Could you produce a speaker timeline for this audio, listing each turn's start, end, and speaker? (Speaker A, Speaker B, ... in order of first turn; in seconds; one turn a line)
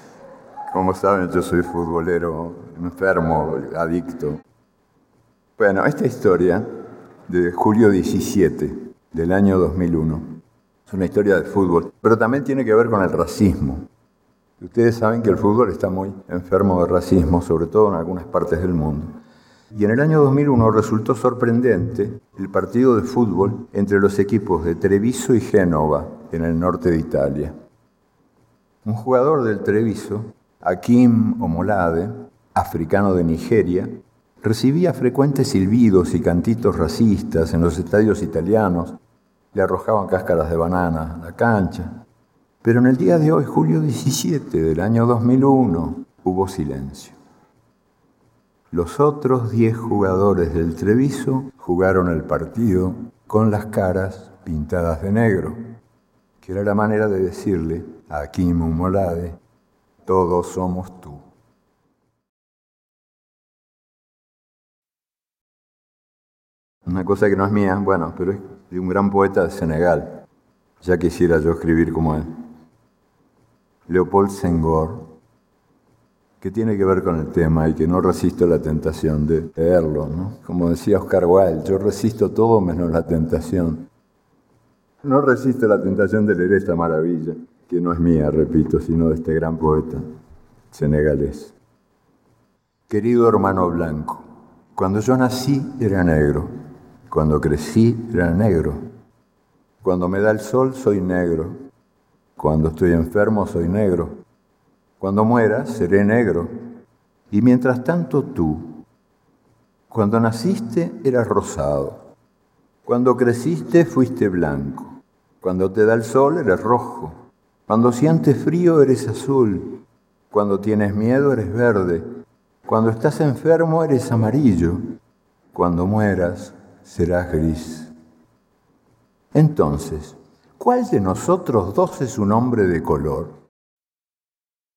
Speaker A: 0.7-4.4
Speaker A: 5.6-6.7
Speaker A: 7.2-10.3
Speaker A: 10.9-13.9
Speaker A: 14.6-19.2
Speaker A: 19.7-27.6
Speaker A: 28.8-39.0
Speaker A: 39.5-42.0
Speaker A: 42.6-47.2
Speaker A: 48.7-55.7
Speaker A: 56.4-59.4
Speaker A: 60.0-61.2
Speaker A: 66.8-70.2
Speaker A: 70.8-72.5
Speaker A: 73.9-75.1
Speaker A: 76.4-83.9
Speaker A: 85.0-90.0
Speaker A: 90.7-91.5
Speaker A: 92.9-96.5
Speaker A: 97.1-98.9
Speaker A: 99.8-101.6
Speaker A: 102.4-104.2
Speaker A: 105.0-106.5
Speaker A: 107.3-108.8
Speaker A: 109.9-112.1
Speaker A: 112.8-122.0
Speaker A: 122.7-124.9
Speaker A: 125.5-127.9
Speaker A: 129.3-133.4